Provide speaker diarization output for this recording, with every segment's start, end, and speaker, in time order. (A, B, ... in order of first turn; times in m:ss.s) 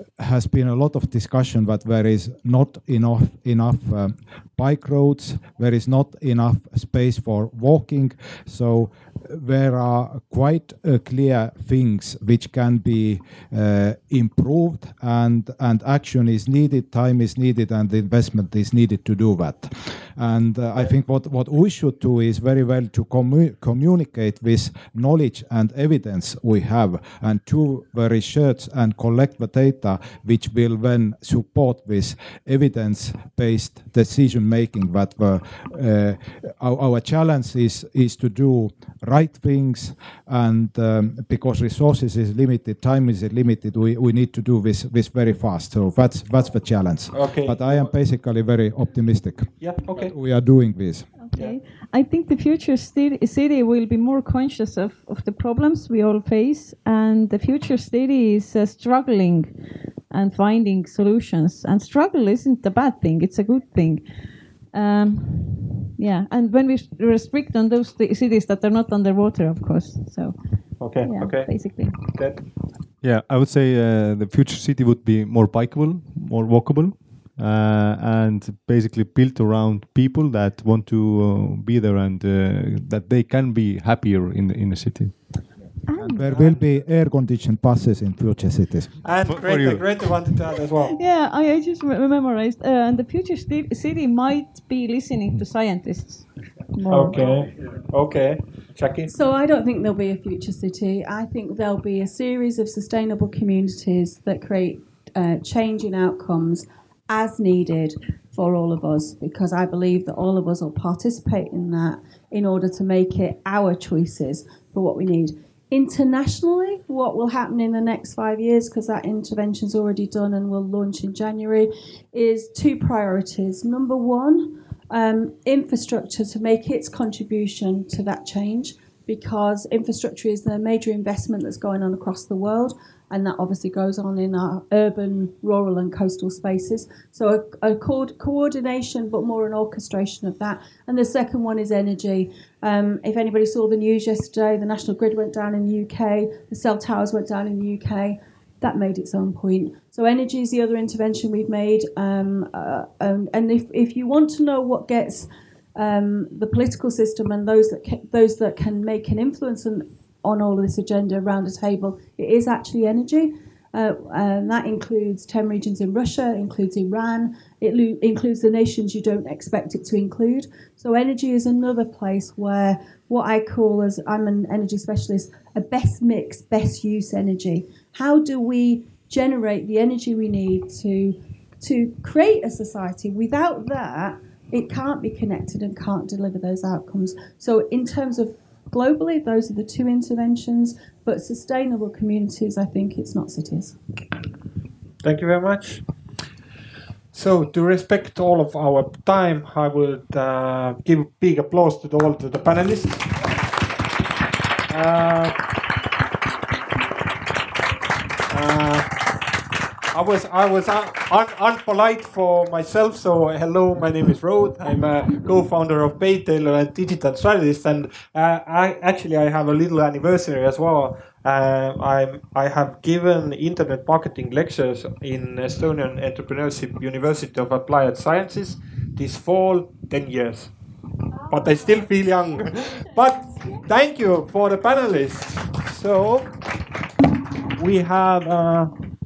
0:00.2-0:51.1 A
0:47.1-0:47.9 B
0:49.6-0:50.1 B
0:51.2-0:59.5 C
1:00.1-1:04.1 C
1:04.7-1:12.0 C
1:10.8-1:12.4 B
1:13.0-1:25.2 D
1:25.9-1:26.2 C
1:25.9-1:29.1 A
1:26.2-1:26.7 B
1:29.0-1:31.0 B
1:29.2-1:30.1 D
1:31.0-1:37.2 C
1:36.9-1:39.1 B
1:39.1-3:13.8 E
3:15.0-3:15.8 B
3:17.1-3:23.2 B
3:24.7-3:25.4 B
3:28.3-3:29.0 B
3:29.9-3:50.5 B
3:51.3-3:56.4 B
3:57.5-3:58.7 B